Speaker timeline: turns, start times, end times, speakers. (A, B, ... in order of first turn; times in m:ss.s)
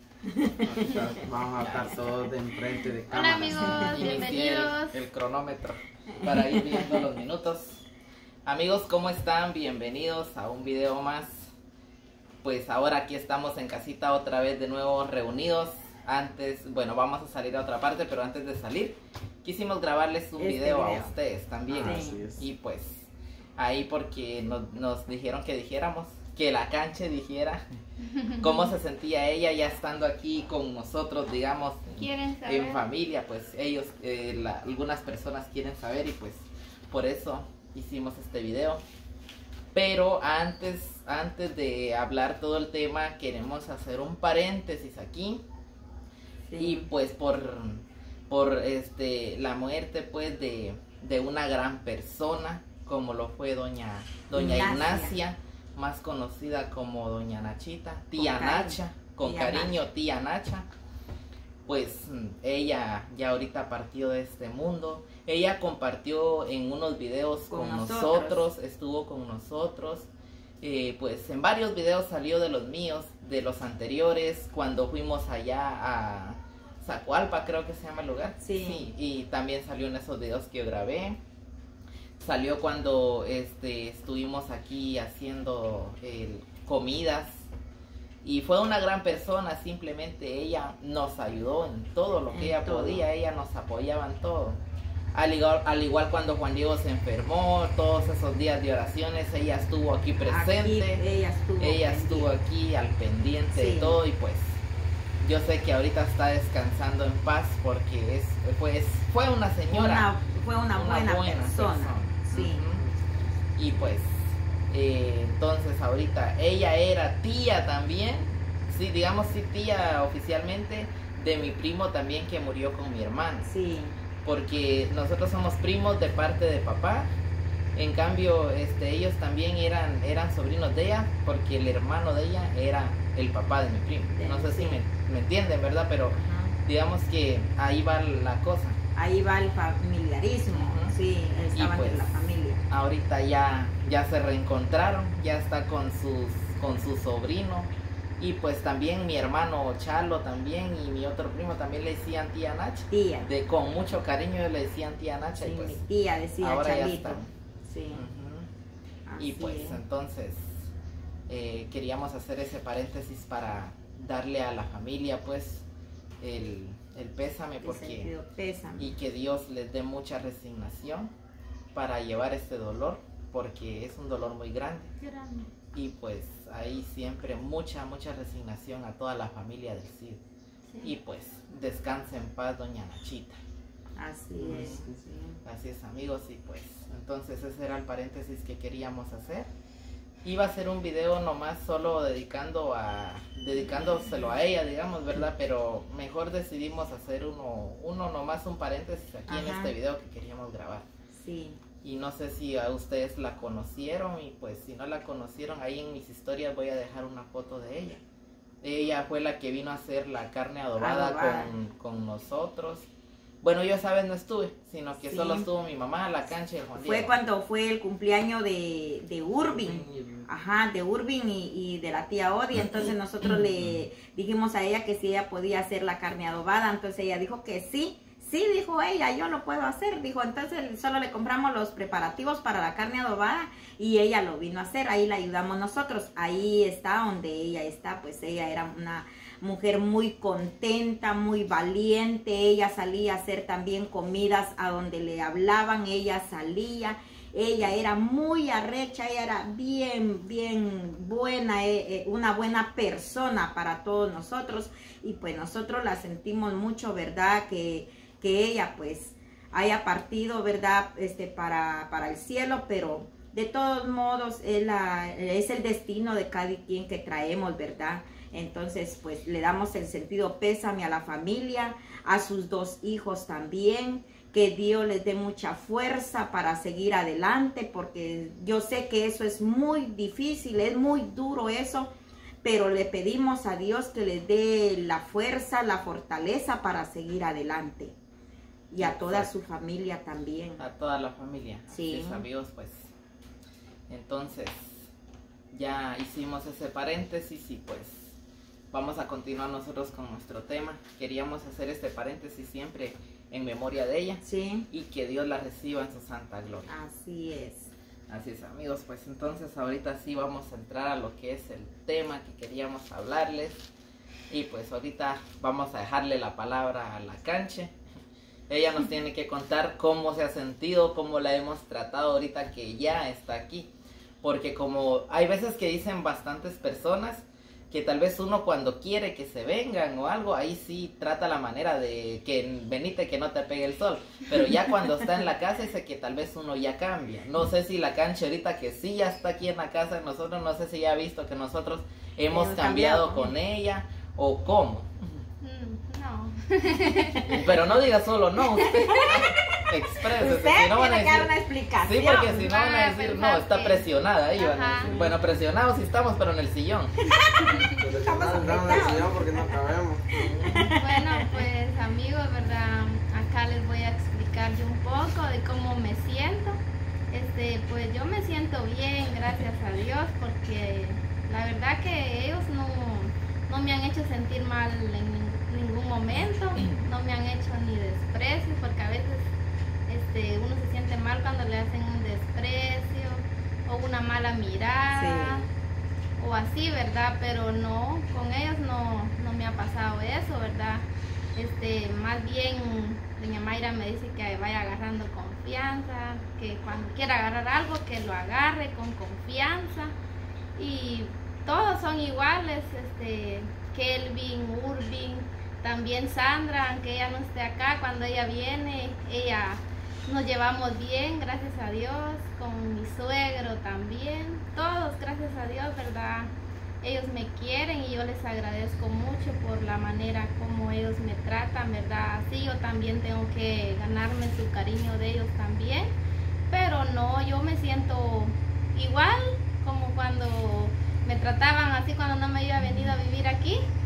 0:00.4-0:02.2 A
0:00.9-0:04.3 B
0:03.1-0:05.0 C
0:03.8-0:07.8 A
0:06.3-0:06.9 D
0:08.4-0:11.5 A
0:12.4-0:27.6 A
0:20.4-0:21.1 D
0:21.7-0:22.4 B
0:21.8-0:22.2 D
0:28.4-0:38.8 A
0:31.9-0:32.8 C
0:39.7-0:45.4 A
0:46.4-0:46.9 D
0:46.6-1:00.7 A
0:54.3-0:55.2 D
0:58.2-0:59.8 D
1:01.6-1:10.1 A
1:07.5-1:08.4 D
1:10.6-1:21.2 A
1:18.4-1:18.9 D
1:22.2-1:27.5 A
1:28.2-1:34.6 A
1:32.3-1:33.0 D
1:35.1-1:41.0 A
1:40.2-1:42.4 D
1:41.6-1:44.6 A
1:43.5-1:44.0 D
1:45.2-1:50.1 A
1:49.7-1:52.7 D
1:50.7-1:52.8 A
1:53.6-2:03.5 A
2:03.4-2:04.0 D
2:04.2-2:07.1 A
2:07.7-2:18.8 A
2:14.1-2:14.8 D
2:16.1-2:16.6 D
2:18.9-2:22.6 D
2:20.5-2:20.9 A
2:21.5-2:35.8 A
2:32.9-2:33.3 D
2:35.4-2:38.0 D
2:36.4-2:37.3 A
2:37.9-2:38.5 A
2:39.1-2:39.8 D
2:39.2-2:40.7 A
2:41.3-2:45.6 A
2:46.2-2:48.1 A
2:47.6-2:49.0 D
2:48.8-2:51.1 A
2:51.7-2:54.9 A
2:55.0-2:55.5 C
2:55.7-3:00.2 A
3:00.8-3:03.4 A
3:04.0-3:05.4 D
3:04.4-3:04.9 A
3:05.4-3:09.5 A
3:10.2-3:20.8 A
3:19.3-3:19.7 D
3:21.1-3:21.6 D
3:21.8-3:28.0 A
3:28.6-3:32.9 A
3:30.8-3:31.5 D
3:33.4-3:37.1 A
3:35.0-3:35.5 D
3:36.8-4:41.9 D
3:39.4-3:40.2 B
3:42.5-3:43.8 A
4:42.4-4:47.9 D
4:48.7-4:50.6 D
4:48.8-4:49.3 A
4:50.6-4:52.9 A
4:51.7-4:52.2 D
4:53.9-4:54.8 A
4:55.5-4:58.2 A
4:58.7-5:06.7 A
5:04.2-5:04.7 D
5:06.7-5:07.7 D
5:08.1-5:13.6 A
5:14.3-5:17.7 A
5:18.5-5:23.7 A
5:24.2-5:45.2 A
5:42.3-5:43.3 D
5:45.4-5:47.3 C
5:47.2-5:47.5 D
5:47.2-5:57.0 A
5:48.6-5:52.5 D
5:52.4-5:54.9 C
5:54.8-5:55.2 D
5:57.3-5:59.7 D
5:57.8-6:00.1 B
6:00.1-6:00.7 A
6:00.3-6:01.4 D
6:00.7-6:19.3 C
6:19.9-6:25.5 C
6:24.9-6:25.5 D
6:26.2-6:39.9 C
6:40.6-6:56.3 C
6:56.8-7:05.9 C
7:06.5-7:13.6 C
7:12.6-7:12.9 D